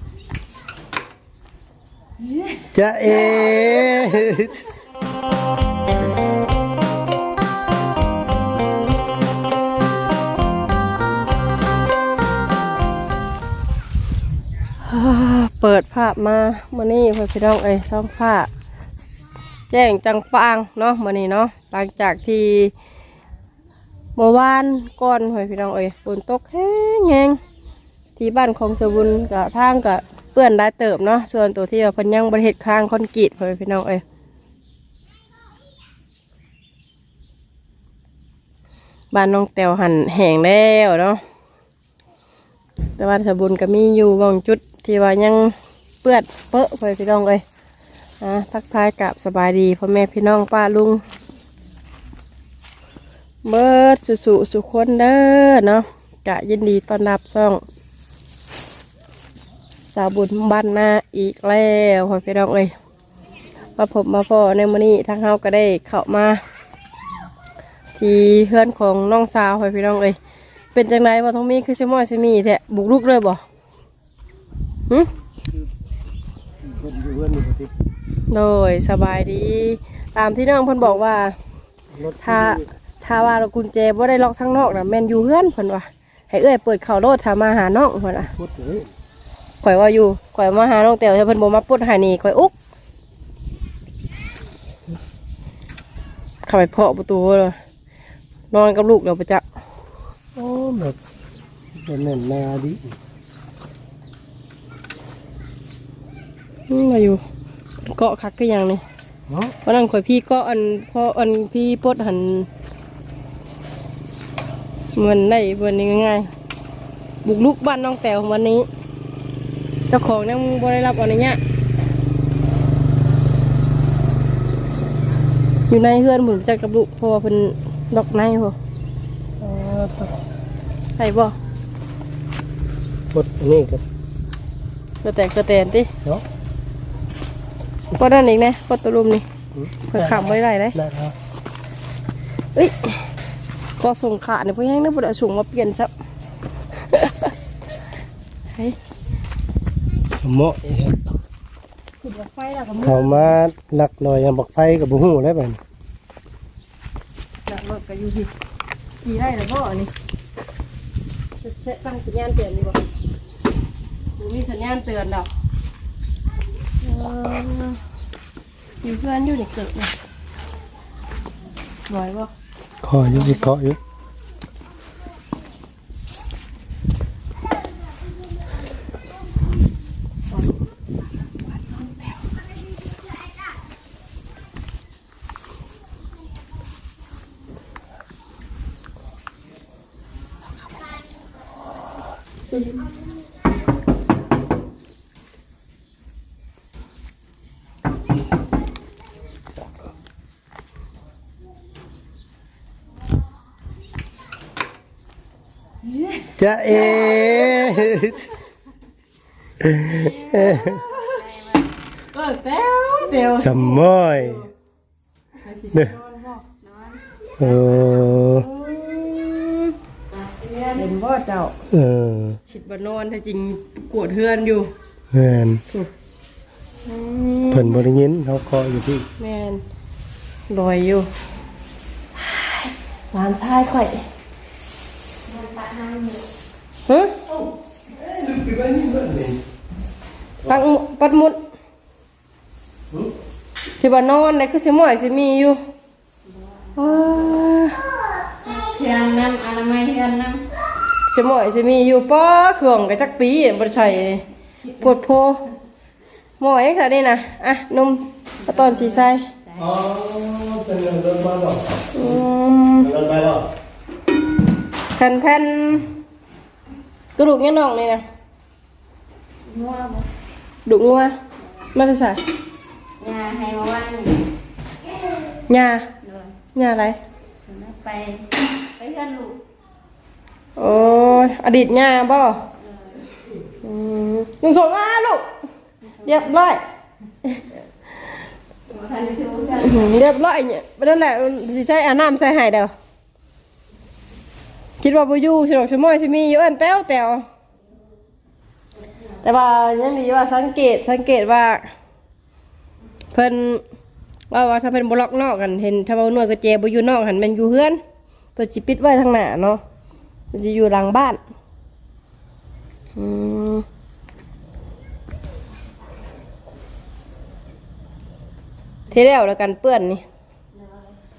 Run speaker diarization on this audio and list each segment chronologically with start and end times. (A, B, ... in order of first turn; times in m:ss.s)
0:02.7-0:04.7 A
0:14.8-0:18.5 B
0:19.7-0:22.7 B
0:24.2-0:27.4 B
0:28.2-0:34.0 B
0:39.1-0:41.2 B
0:43.0-0:47.4 B
0:48.2-0:51.0 B
0:53.4-0:57.6 B
1:00.0-1:02.7 B
1:03.8-1:06.4 B
1:08.0-1:10.2 B
1:10.8-1:13.4 B
1:16.6-1:17.7 A
1:18.3-1:21.4 B
1:21.9-1:22.7 A
1:22.2-1:28.3 B
1:28.2-1:28.9 A
1:29.6-1:32.5 B
1:36.5-1:37.6 B
1:38.5-1:39.4 B
1:40.4-1:41.0 A
1:41.7-1:43.0 A
1:46.7-1:47.2 B
1:47.8-1:48.8 B
1:49.3-1:49.6 A
1:49.7-1:52.5 B
1:55.0-1:56.3 B
1:57.2-1:58.7 B
1:59.9-2:01.4 B
2:05.7-2:08.6 B
2:09.4-2:10.1 B
2:11.0-2:11.3 B
2:13.1-2:13.8 A
2:15.0-2:15.9 B
2:18.0-2:19.2 B
2:19.5-2:21.2 A
2:19.9-2:20.8 B
2:22.6-2:23.0 B
2:23.8-2:25.9 B
2:26.9-2:27.3 B
2:30.2-2:31.2 A
2:32.0-2:33.4 B
2:32.8-2:35.6 A
2:37.5-2:38.3 B
2:39.0-2:39.9 B
2:41.4-2:42.8 B
2:44.2-2:45.3 B
2:46.8-2:47.8 B
2:48.8-2:49.9 B
2:51.9-2:52.3 B
2:52.8-2:53.8 A
2:53.1-2:53.5 B
3:00.3-3:00.6 B
3:12.5-3:12.8 B
3:26.0-3:26.3 C
3:26.4-3:28.3 A
3:26.8-3:28.0 B
3:29.6-3:30.8 A
3:29.8-3:31.2 B
3:29.9-3:31.7 C
3:32.1-3:34.4 B
3:33.4-3:34.4 A
3:35.4-3:36.4 B
3:36.6-3:38.1 C
3:37.4-3:38.5 A
3:38.4-3:39.8 B
3:40.1-3:40.9 C
3:40.8-3:41.6 B
3:41.7-3:42.4 A
3:42.5-3:44.7 B
3:45.1-3:45.6 A
3:46.9-3:47.8 B
3:47.5-3:49.1 A
3:49.2-3:49.6 B
3:50.5-3:51.1 B
3:52.2-3:54.0 B
3:55.3-3:56.3 C
3:56.9-3:57.2 B
3:57.9-3:59.4 A
4:00.5-4:01.4 B
4:03.8-4:05.6 B
4:06.3-4:07.5 C
4:06.8-4:07.8 B
4:08.4-4:10.4 C
4:11.1-4:14.2 B
4:14.6-4:15.0 C
4:14.8-4:15.4 B
4:16.4-4:19.2 B
4:18.4-4:19.7 C
4:19.6-4:22.2 A
4:22.0-4:22.9 B
4:22.8-4:23.5 A
4:25.0-4:25.9 B
4:27.2-4:28.0 B
4:29.5-4:30.1 C
4:30.7-4:31.2 B
4:31.4-4:31.7 C
4:31.8-4:32.2 B
4:33.0-4:34.3 C
4:35.5-4:35.9 B
4:36.0-4:36.4 C
4:36.6-4:37.0 B
4:37.5-4:39.4 C
4:40.6-4:42.4 B
4:42.6-4:43.0 C
4:43.6-4:45.3 B
4:45.8-4:46.3 C
4:46.0-4:46.6 B
4:48.7-4:49.9 C
4:49.6-4:52.7 B
4:54.8-4:57.2 B
4:59.2-5:01.6 B
5:03.1-5:03.6 B
5:04.3-5:07.8 B
5:08.4-5:09.6 B
5:10.3-5:11.2 B
5:13.0-5:13.6 B
5:18.9-5:20.0 B